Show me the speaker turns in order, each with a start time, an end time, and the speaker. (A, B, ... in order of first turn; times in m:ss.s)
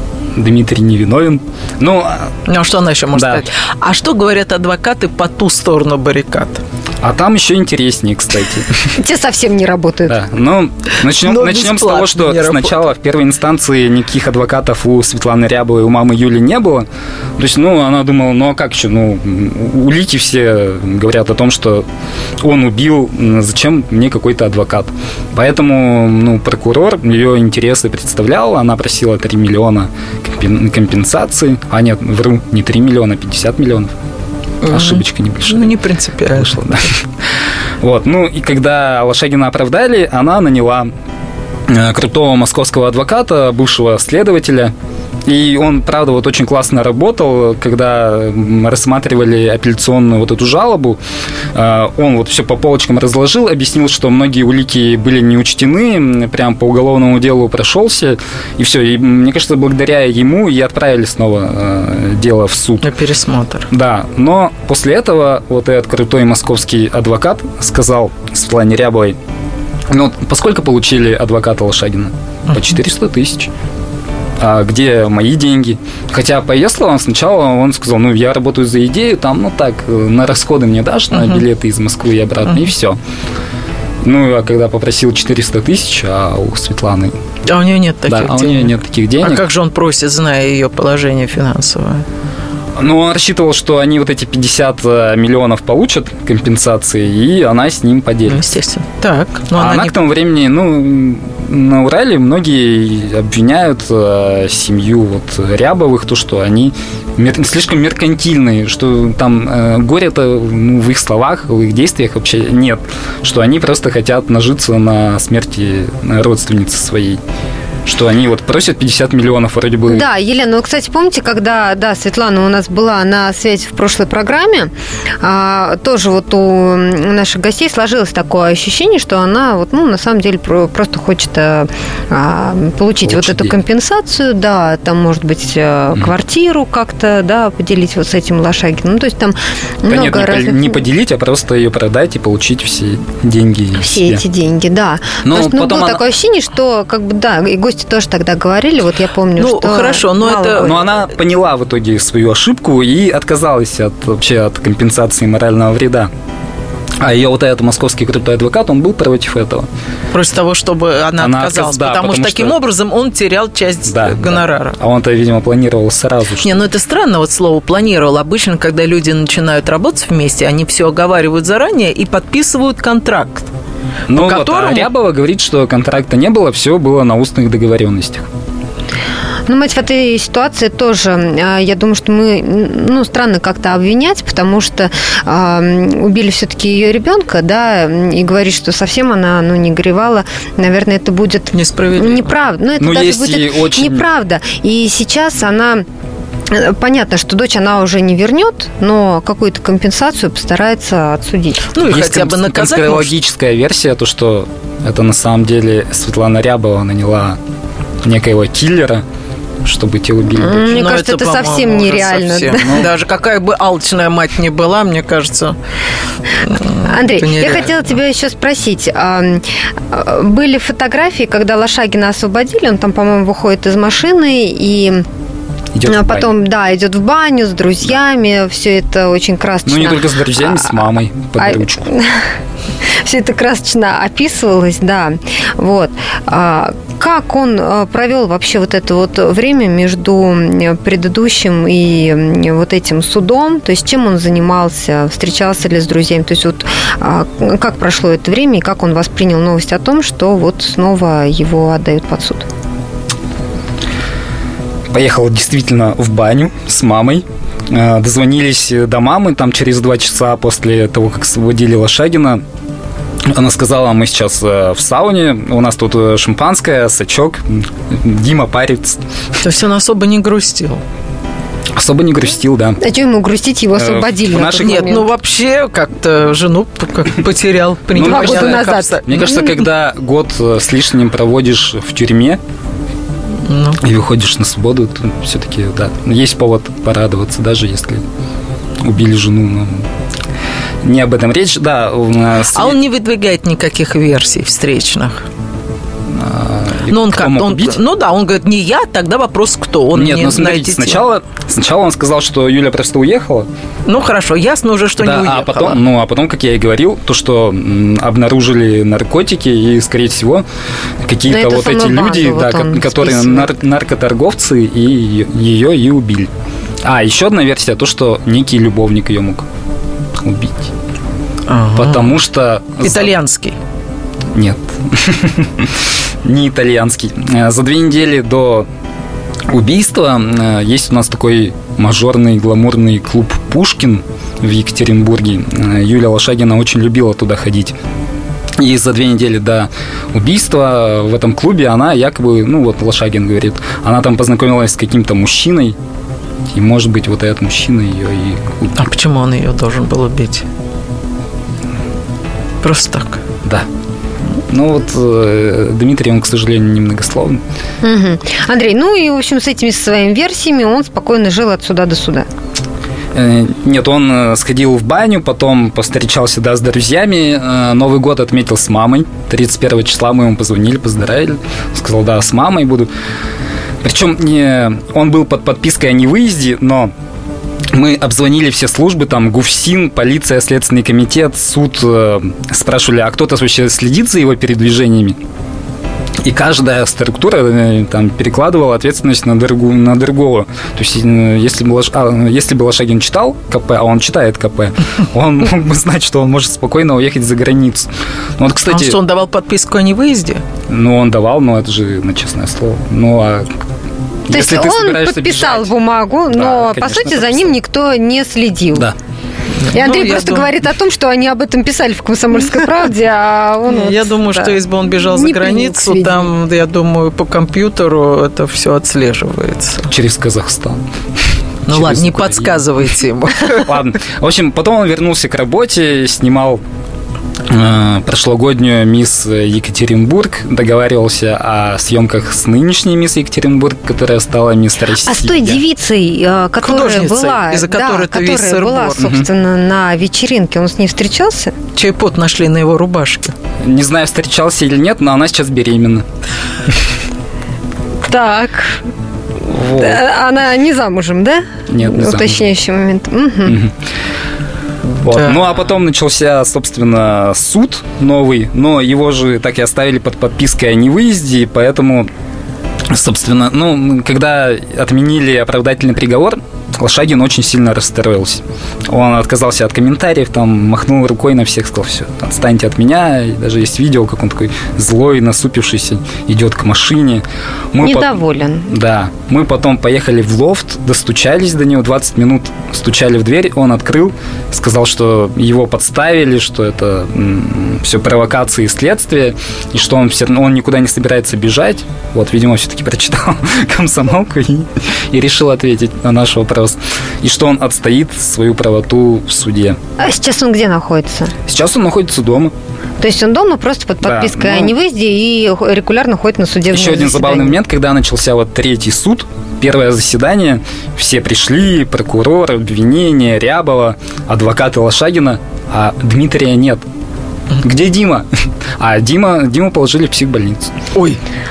0:00.4-0:02.3 A
0:02.5-0:06.6 B
0:03.1-0:03.5 A
0:07.0-0:08.9 A
0:09.0-0:10.2 C
0:10.1-0:16.8 A
0:11.2-0:12.9 B
0:17.4-0:21.8 A
0:22.4-0:33.9 A
0:34.6-0:36.6 B
0:34.6-0:35.7 A
0:36.3-0:37.0 A
0:37.8-0:40.9 A
0:41.7-0:44.7 A
0:45.2-0:51.0 A
0:51.5-1:02.9 A
1:02.8-1:03.7 B
1:03.7-1:09.2 A
1:09.9-1:13.5 A
1:14.4-1:23.0 A
1:21.1-1:21.4 B
1:24.0-1:27.1 A
1:27.5-1:32.0 B
1:28.1-1:29.4 A
1:32.8-1:38.4 A
1:38.3-1:39.9 B
1:39.5-1:57.2 A
1:57.8-2:00.0 A
1:59.9-2:20.8 C
2:13.0-2:13.5 A
2:19.9-2:24.2 A
2:23.8-2:30.9 C
2:25.2-2:26.0 A
2:29.4-2:30.7 B
2:30.6-2:36.1 A
2:37.0-2:39.7 A
2:40.1-2:44.8 B
2:41.2-2:42.6 A
2:43.9-2:46.6 A
2:46.4-2:53.5 B
2:54.1-2:58.3 A
2:54.1-2:54.9 B
2:59.5-3:15.8 C
3:11.5-3:12.3 B
3:12.8-3:14.0 A
3:16.5-3:21.7 C
3:21.7-3:23.1 B
3:21.8-3:27.4 A
3:28.0-3:29.0 A
3:29.6-3:30.8 A
3:30.3-3:32.9 C
3:30.7-3:35.6 B
3:32.5-3:32.9 A
3:36.4-3:37.9 B
3:36.8-3:45.0 C
3:45.7-3:46.3 A
3:45.8-3:50.8 C
3:49.6-3:51.8 A
3:51.4-3:52.2 C
3:53.0-4:12.5 C
4:14.9-4:22.4 A
4:23.3-4:29.0 A
4:29.4-4:30.8 B
4:31.7-4:32.8 A
4:32.8-4:35.1 C
4:33.8-4:34.9 A
4:34.6-4:39.1 B
4:37.9-4:42.4 A
4:38.0-4:39.6 C
4:43.4-4:43.8 B
4:43.8-4:48.0 A
4:48.8-4:49.8 A
4:50.8-4:52.8 A
4:52.5-4:55.2 B
4:56.1-4:57.8 A
4:56.9-5:01.0 B
4:59.9-5:03.5 A
5:03.8-5:05.8 B
5:05.0-5:10.4 A
5:11.0-5:16.3 A
5:11.3-5:13.5 C
5:16.8-5:19.5 A
5:20.2-5:20.7 A
5:21.5-5:22.2 B
5:21.8-5:23.1 A
5:22.8-5:23.6 B
5:24.3-5:25.7 A
5:26.2-5:28.7 A
5:29.5-5:37.7 A
5:38.6-5:45.8 A
5:46.5-5:48.8 A
5:48.8-5:50.4 B
5:52.6-5:53.2 B
5:54.5-5:57.4 A
5:57.8-6:02.3 C
6:03.1-6:12.9 A
6:13.8-6:16.9 A
6:17.7-6:25.2 A
6:26.2-6:39.0 A
6:38.7-6:40.4 B
6:40.7-6:43.5 A
6:44.3-6:45.7 A
6:44.3-6:48.9 C
6:46.3-6:47.5 A
6:49.6-6:50.5 B
6:49.7-6:56.3 C
6:53.6-6:59.9 B
6:59.9-7:00.8 A
7:01.7-7:02.6 A
7:01.7-7:03.7 B
7:03.5-7:06.6 A
7:07.5-7:15.6 A
7:15.0-7:21.5 C
7:16.6-7:19.1 B
7:21.8-7:23.3 B
7:23.6-7:26.0 A
7:28.0-7:28.9 C
7:29.5-7:30.0 A
7:29.7-7:33.6 C
7:31.7-7:32.4 A
7:33.4-7:33.7 A
7:35.0-7:42.1 A
7:35.1-7:35.4 B
7:42.9-8:19.8 A
7:57.8-7:58.7 C
8:20.0-8:21.3 C
8:21.5-8:22.5 A
8:23.0-8:27.6 C
8:24.0-8:24.7 A
8:26.7-8:36.8 A
8:37.6-8:38.2 A
8:38.8-8:40.7 A